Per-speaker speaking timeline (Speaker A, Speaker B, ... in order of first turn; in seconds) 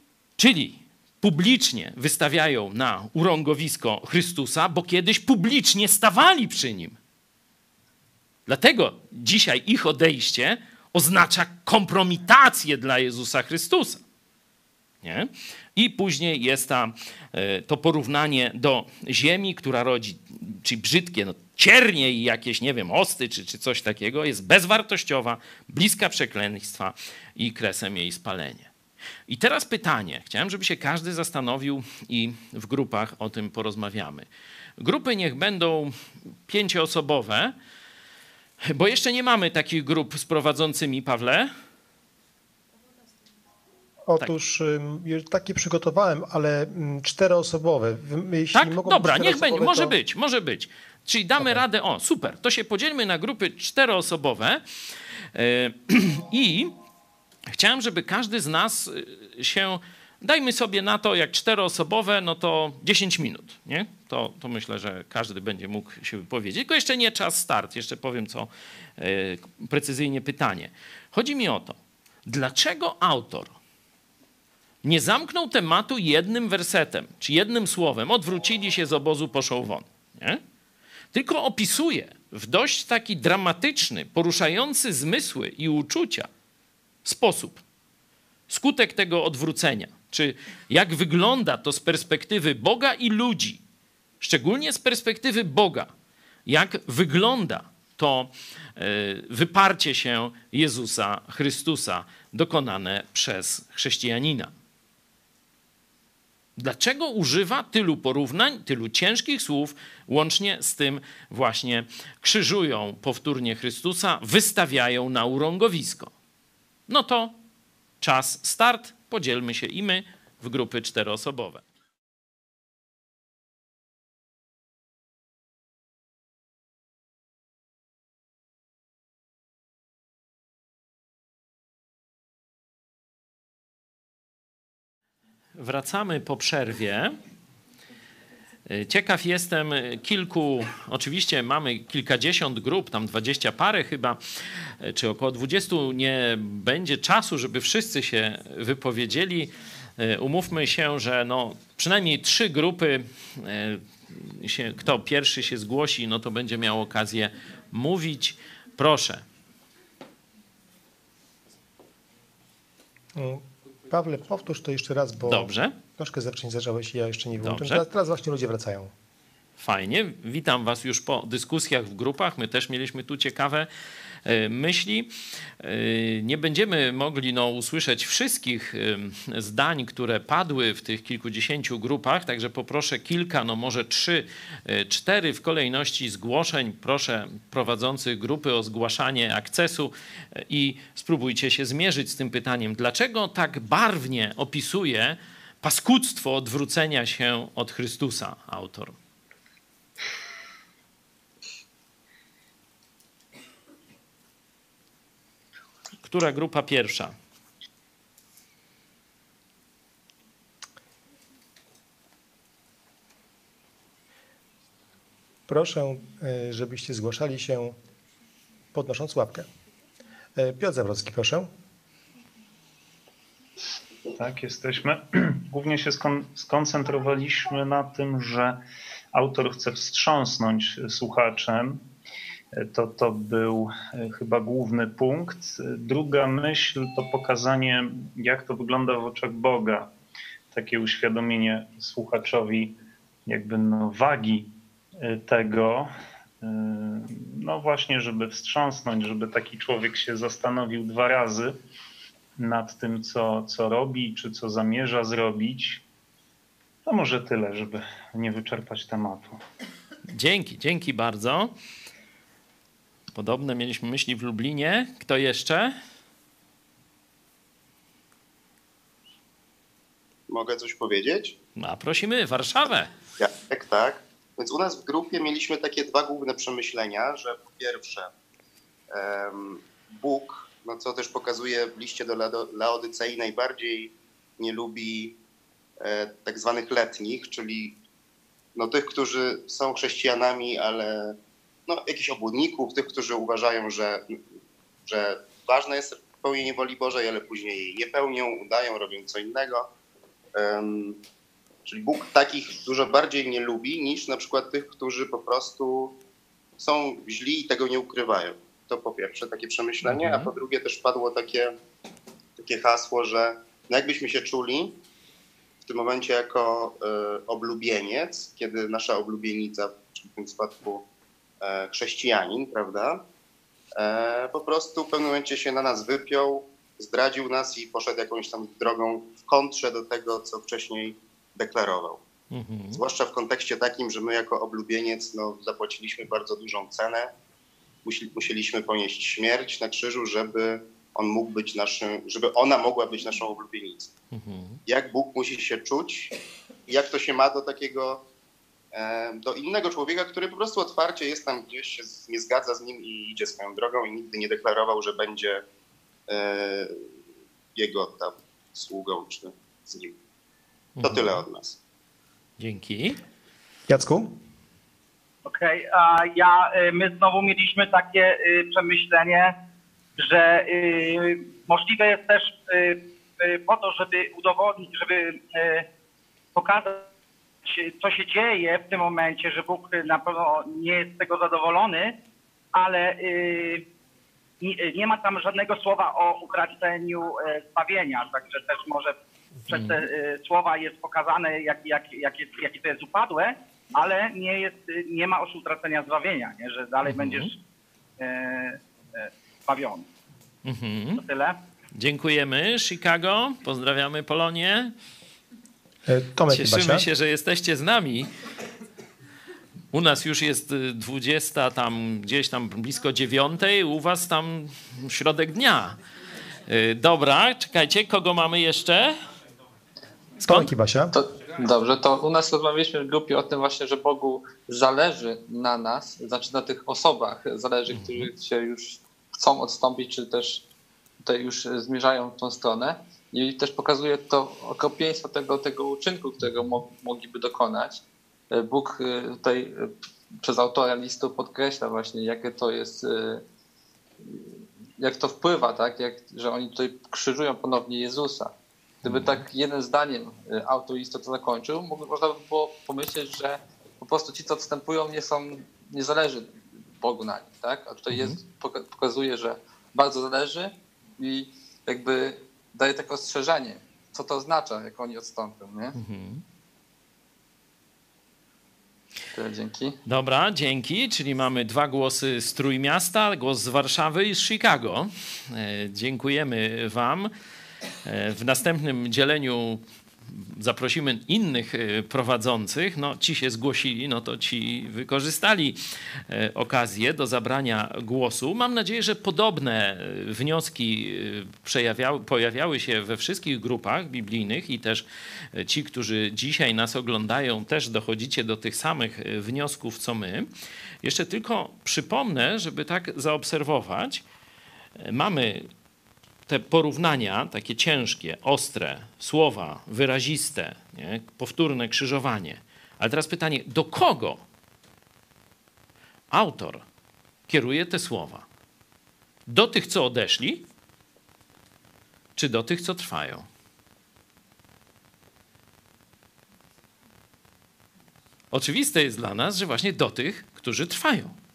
Speaker A: 0.4-7.0, 8.5-14.0, 15.0-28.7, 29.3-34.3, 34.8-35.9, 36.5-37.5, 38.6-41.5, 48.5-54.6, 55.3-56.7, 57.5-73.5, 74.8-80.4, 81.1-86.3, 87.0-87.6, 88.5-93.6, 94.2-95.9, 96.5-104.5, 106.5-116.1, 116.9-117.4, 118.0-121.6, 135.6-137.2, 138.7-159.2, 165.2-165.8, 167.4-167.8, 169.6-173.7, 174.2-198.9, 206.0-207.1, 260.1-261.5, 263.1-265.7, 271.6-272.9, 309.8-310.3, 332.3-332.8, 344.1-344.6, 360.8-361.2, 362.4-363.0, 389.5-389.8, 396.9-397.3, 400.4-401.0, 401.7-404.7, 406.3-408.1, 409.7-415.8, 416.4-418.9, 427.7-428.1, 448.8-449.2, 457.9-458.2, 465.8-466.2, 469.8-477.1, 477.8-500.3, 500.8-504.0, 504.8-505.5, 506.3-514.2, 516.1-516.6, 517.3-518.2, 519.3-520.5, 522.1-523.3, 528.3-531.1
Speaker B: 44.1-49.9, 163.2-168.9, 215.5-217.8, 218.7-219.5, 220.3-221.5, 363.7-364.1, 405.9-406.8, 420.2-420.9
Speaker C: 224.2-228.6, 229.1-231.8, 232.6-239.9, 240.5-242.7, 243.2-244.5, 245.0-245.9, 246.4-251.6, 252.4-255.8, 256.9-259.4
Speaker D: 270.3-271.3, 273.2-278.1, 278.9-285.2, 285.8-287.8, 288.6-291.1, 291.7-294.2, 294.9-299.7, 300.3-301.0, 301.6-305.9, 306.6-311.5, 312.4-314.8, 315.6-320.9, 321.4-323.0, 323.8-332.0, 332.7-337.1, 337.8-343.9, 344.7-346.1, 346.7-348.0, 348.7-355.4, 356.1-356.7, 357.5-359.9, 360.8-361.6
Speaker E: 365.2-369.3, 370.0-375.7, 376.3-376.9, 377.4-381.9, 382.5-383.6, 384.4-388.9, 389.5-397.4, 398.0-399.9, 400.9-401.4
Speaker F: 420.9-430.4, 431.0-443.2, 444.8-448.3, 448.8-465.8, 469.1-469.8